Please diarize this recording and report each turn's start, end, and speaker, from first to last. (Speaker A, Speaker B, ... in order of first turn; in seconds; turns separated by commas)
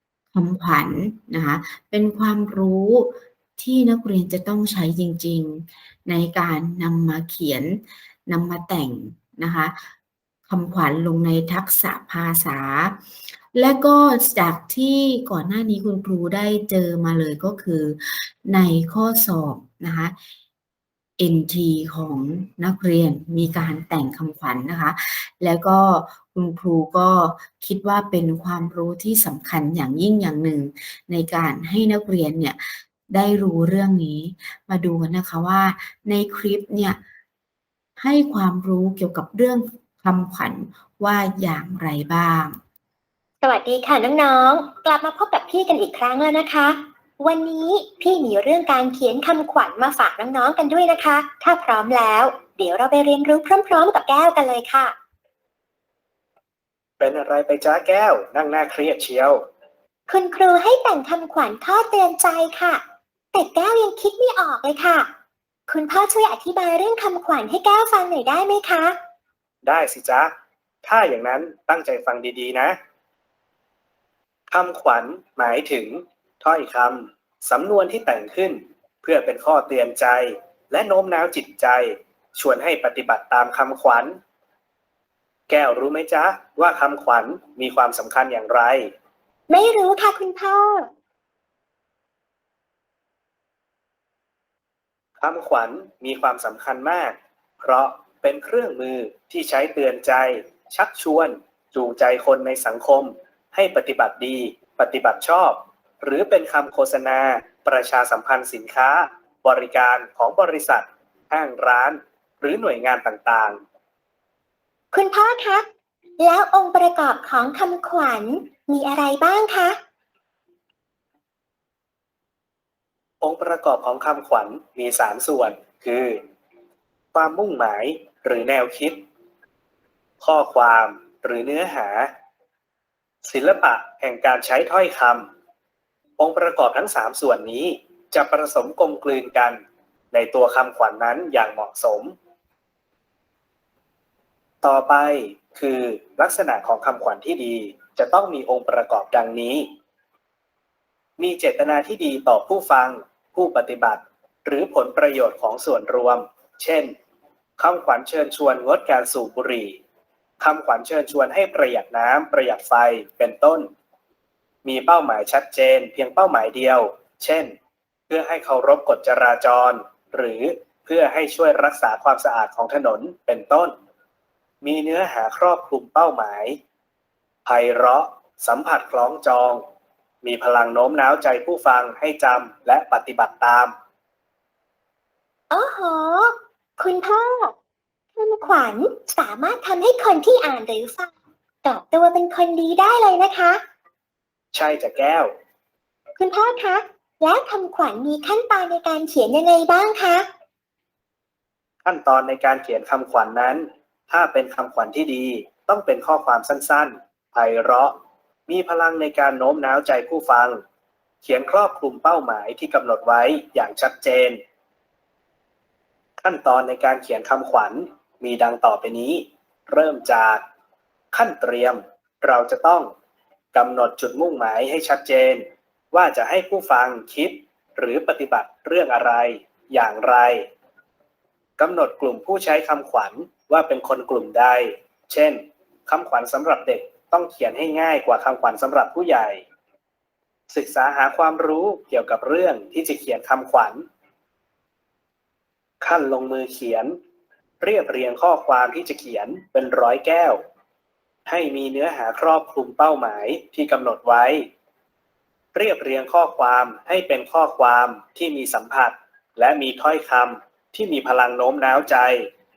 Speaker A: 0.3-9.9, Speaker A: 10.5-13.0, Speaker A: 13.5-20.1, Speaker A: 21.2-37.0, Speaker A: 38.0-42.6, Speaker B: 43.4-54.9, Speaker C: 57.0-59.4, Speaker B: 60.1-62.8, Speaker B: 63.3-65.1, Speaker B: 65.7-69.0, Speaker C: 69.6-70.3, Speaker C: 70.8-72.7, Speaker C: 74.5-84.1, Speaker C: 85.5-88.9, Speaker B: 89.5-90.9, Speaker C: 95.2-113.6, Speaker B: 114.9-115.7, Speaker B: 116.2-119.8, Speaker C: 123.2-126.2, Speaker C: 127.1-129.0, Speaker C: 130.2-132.1, Speaker C: 133.2-135.3, Speaker C: 136.2-139.6, Speaker C: 140.1-142.1, Speaker C: 144.6-149.7, Speaker C: 151.2-156.9, Speaker C: 157.6-159.8, Speaker C: 160.4-163.7, Speaker C: 164.6-167.5, Speaker C: 168.1-173.7, Speaker C: 174.6-176.6, Speaker C: 177.4-179.6, Speaker C: 180.2-183.7, Speaker B: 185.5-187.5, Speaker B: 188.2-191.1, Speaker B: 191.6-193.6, Speaker C: 194.5-195.3, Speaker B: 196.2-200.3, Speaker C: 201.8-207.9, Speaker C: 208.5-210.6, Speaker C: 211.2-214.4, Speaker C: 216.2-220.4, Speaker C: 221.1-222.9, Speaker C: 223.5-230.5, Speaker C: 231.6-239.4, Speaker C: 240.5-243.8, Speaker C: 245.8-246.9, Speaker C: 247.6-250.4, Speaker C: 251.3-254.5, Speaker C: 255.5-262.3